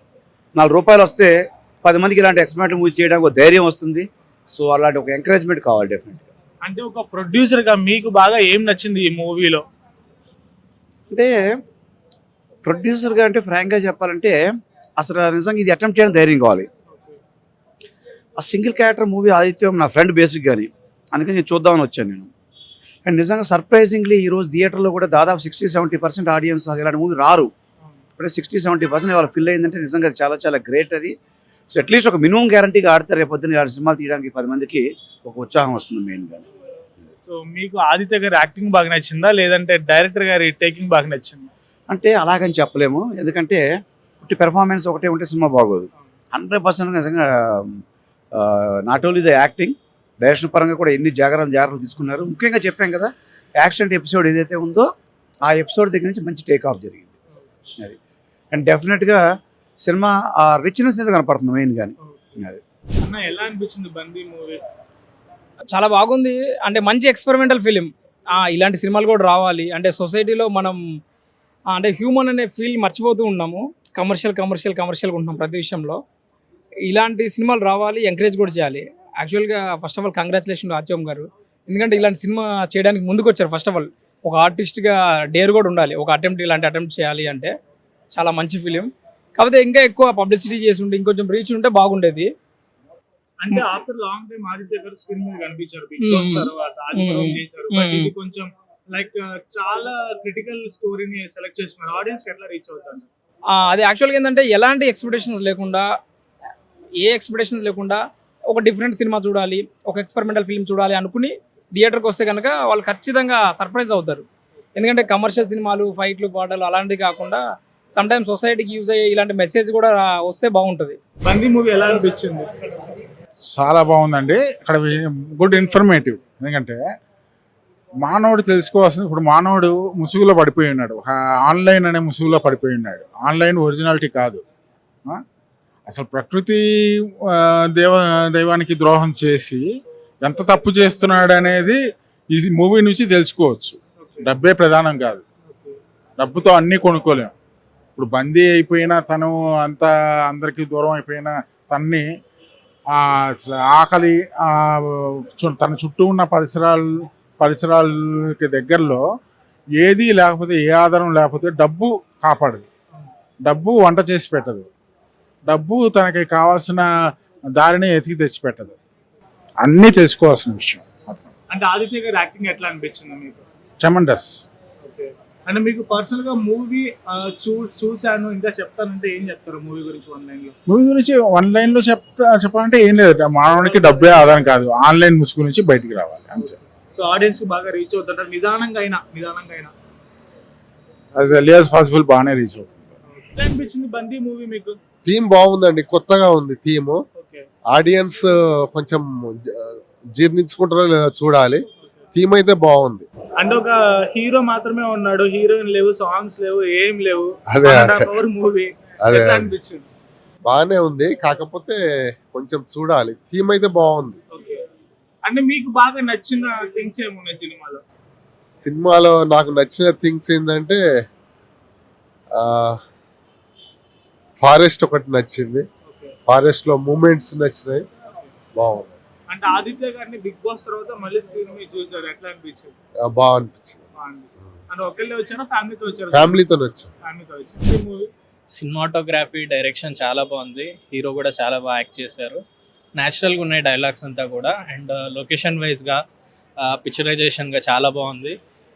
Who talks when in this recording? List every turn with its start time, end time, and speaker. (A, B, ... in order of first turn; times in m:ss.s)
0:00.6-0:01.3 A
0:01.8-0:06.3 A
0:06.6-0:09.6 B
0:12.6-0:14.4 A
0:15.0-0:16.7 A
0:16.9-0:17.2 B
0:18.4-0:22.3 A
0:23.0-0:27.5 A
0:28.2-0:31.1 A
0:31.7-0:36.5 A
0:37.2-0:41.5 B
0:41.9-0:43.6 A
0:44.2-0:47.8 A
0:48.4-0:53.1 A
0:53.6-0:54.9 A
0:55.5-0:57.1 A
0:58.5-0:59.2 A
0:59.8-1:02.6 A
1:02.0-1:02.4 B
1:03.0-1:04.6 B
1:05.7-1:10.8 C
1:11.7-1:16.0 C
1:16.8-1:27.5 C
1:28.1-1:32.3 C
1:33.4-1:43.0 B
1:36.0-1:38.1 C
1:43.5-1:45.9 C
1:47.0-2:01.0 C
2:01.2-2:02.5 B
2:03.5-2:06.8 D
2:08.0-2:14.4 D
2:15.9-2:16.6 D
2:17.7-2:19.6 D
2:20.2-2:21.8 D
2:22.3-2:25.2 D
2:24.0-2:24.3 B
2:25.5-2:25.8 B
2:26.2-2:27.3 D
2:28.0-2:32.0 D
2:33.3-2:34.5 D
2:35.3-2:36.8 D
2:37.4-2:39.0 D
2:39.8-2:42.6 D
2:43.4-2:44.7 D
2:45.5-2:46.9 D
2:47.6-2:48.8 D
2:49.6-2:51.3 D
2:51.5-2:53.4 B
2:53.8-2:54.4 D
2:54.8-3:00.5 B
3:00.7-3:06.5 D
3:03.6-3:04.4 B
3:06.4-3:09.7 B
3:11.2-3:12.9 D
3:13.1-3:14.8 B
3:15.0-3:17.0 E
3:17.2-3:17.5 B
3:17.7-3:23.1 E
3:23.4-3:29.8 B
3:27.5-3:28.1 E
3:29.1-3:29.5 E
3:30.5-3:31.8 E
3:32.3-3:34.2 E
3:34.3-3:34.6 B
3:35.2-3:37.8 B
3:38.6-3:40.8 E
3:42.4-3:42.8 E
3:44.4-3:45.7 E
3:45.8-3:46.1 B
3:46.3-3:47.9 E
3:48.6-3:49.0 E
3:49.3-3:52.7 B
3:53.0-3:53.8 E
3:54.0-3:56.4 B
3:56.1-3:56.9 E
3:57.0-3:58.1 B
3:58.5-4:02.4 F
4:03.0-4:06.0 F
4:06.6-4:08.4 F